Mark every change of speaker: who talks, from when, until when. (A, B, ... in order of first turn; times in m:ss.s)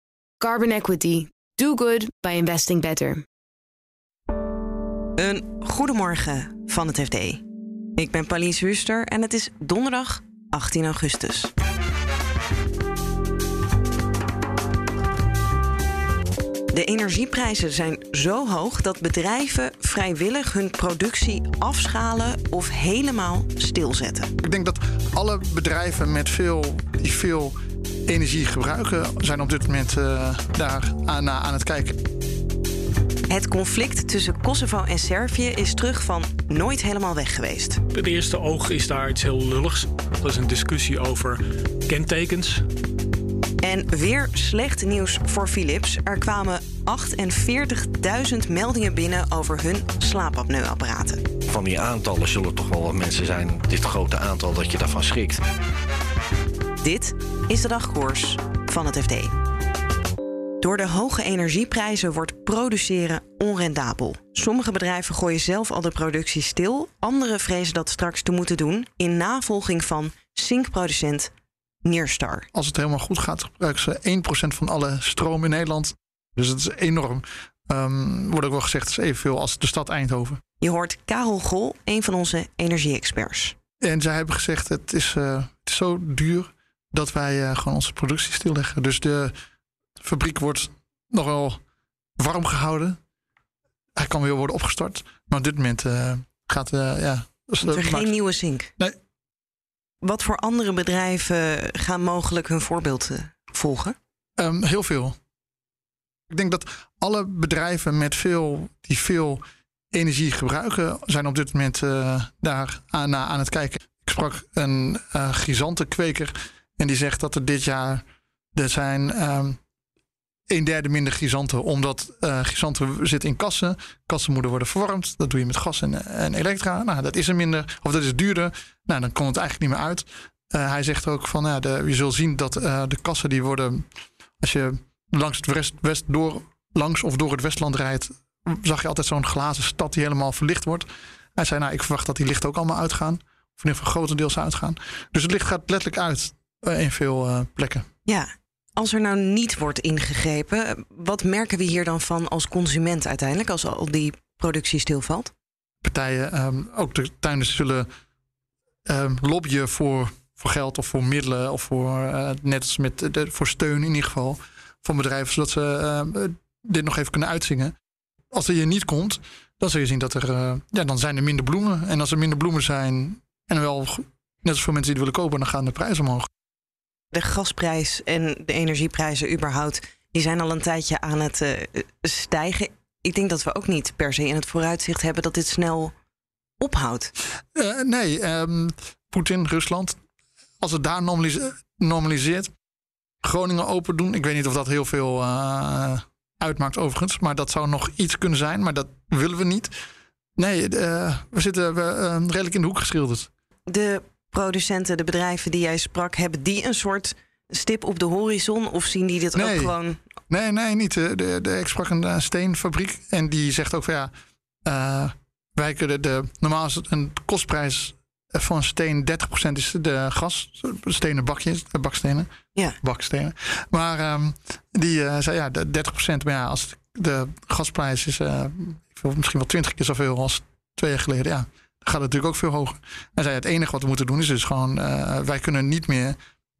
0:00.4-0:03.2 A
0:05.2-0:07.4 B
0:08.0-0:11.5 B
0:16.7-0:24.3 B
0:24.4-0:27.5 C
0:28.1-0:32.0 C
0:33.3-0:37.8 B
0:37.9-0:42.6 D
0:43.6-0:51.2 B
0:51.5-0:55.4 E
0:56.8-0:59.3 B
1:00.6-1:11.3 B
1:11.8-1:12.5 B
1:12.5-1:20.4 C
1:20.6-1:23.5 B
1:23.8-1:29.3 C
1:30.0-1:31.6 C
1:32.2-1:33.0 C
1:34.0-1:38.1 C
1:37.6-1:38.7 B
1:40.0-1:43.9 B
1:44.4-1:45.1 C
1:46.3-1:49.4 C
1:49.9-1:58.0 C
1:58.6-1:59.6 C
2:00.5-2:13.8 C
2:14.4-2:27.8 C
2:28.1-2:35.3 B
2:35.8-2:37.9 C
2:38.9-2:47.7 C
2:48.3-2:56.3 C
2:57.1-3:05.9 B
3:06.6-3:07.1 B
3:07.5-3:10.0 C
3:10.6-3:12.5 C
3:13.2-3:19.7 C
3:20.4-3:23.3 C
3:23.7-3:30.0 B
3:29.3-3:29.7 C
3:30.3-3:34.1 C
3:34.6-3:42.3 C
3:42.8-3:56.2 C